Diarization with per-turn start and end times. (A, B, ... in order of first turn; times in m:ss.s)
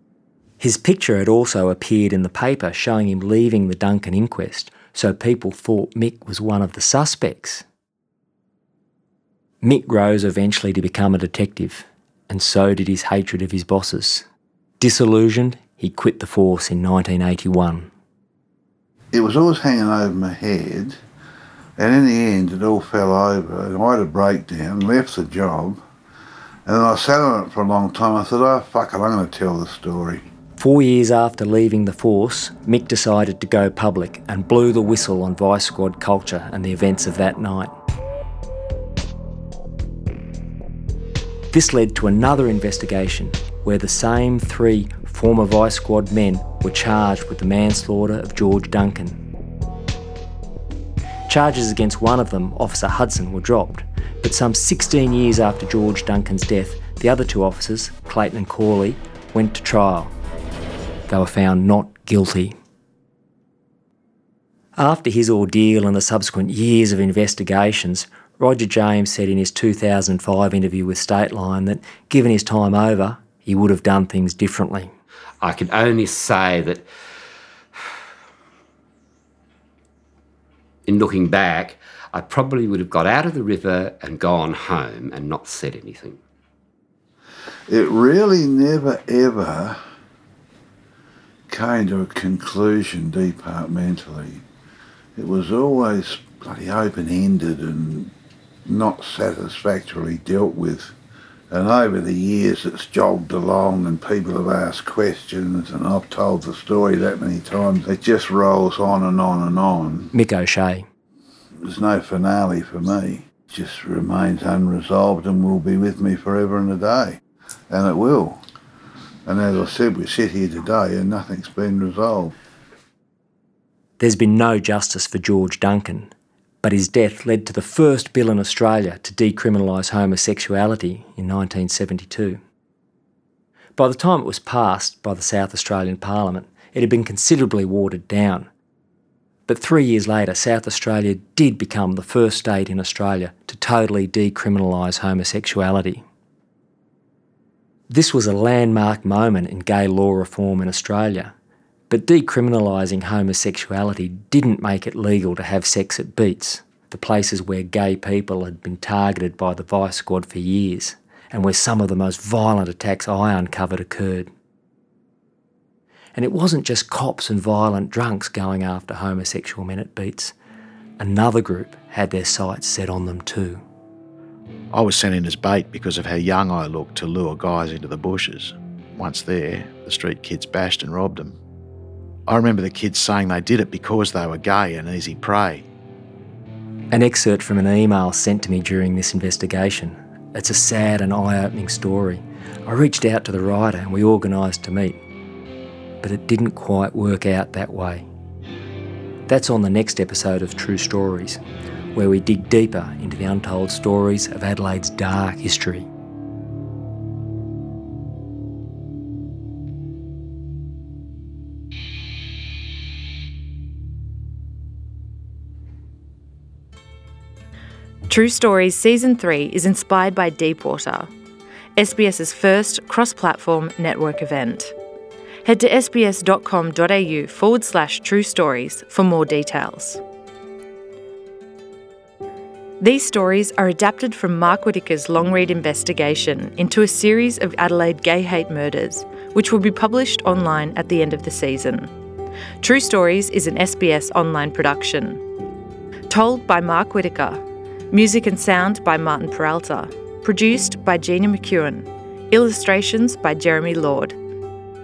0:00.6-0:07.6 A
0:09.6-0:14.2 A
0:14.8-0:17.9 A
0:19.1-0:21.0 B
0:21.8-0:25.8 B
0:26.7-0:30.2 B
0:30.6-0:37.7 A
0:41.5-0:49.2 A
0:51.3-1:00.1 A
1:01.1-1:02.5 A
1:04.8-1:14.9 A
1:15.4-1:16.8 C
1:20.8-1:26.2 C
1:27.7-1:29.8 B
1:31.5-1:34.4 B
1:35.2-1:38.1 B
1:38.6-1:40.9 B
1:41.5-1:50.1 B
1:50.1-1:50.8 A
1:51.6-1:57.2 B
1:57.7-1:58.4 B
1:59.2-2:02.3 B
2:04.0-2:06.1 A
2:06.6-2:12.4 A
2:13.8-2:18.5 A
2:19.5-2:26.0 A
2:27.9-2:31.3 A
2:31.9-2:44.3 A
2:46.1-2:50.3 A
2:51.0-2:53.6 A
2:54.7-3:01.4 D
3:02.3-3:05.7 D
3:06.9-3:15.0 A
3:16.0-3:18.1 A
3:19.3-3:21.4 A
3:21.9-3:25.9 A
3:38.1-3:41.1 E
3:41.8-3:44.7 E
3:45.4-3:50.0 E
3:52.8-4:01.9 E
4:02.6-4:05.2 E
4:06.1-4:07.4 E
4:07.9-4:14.2 E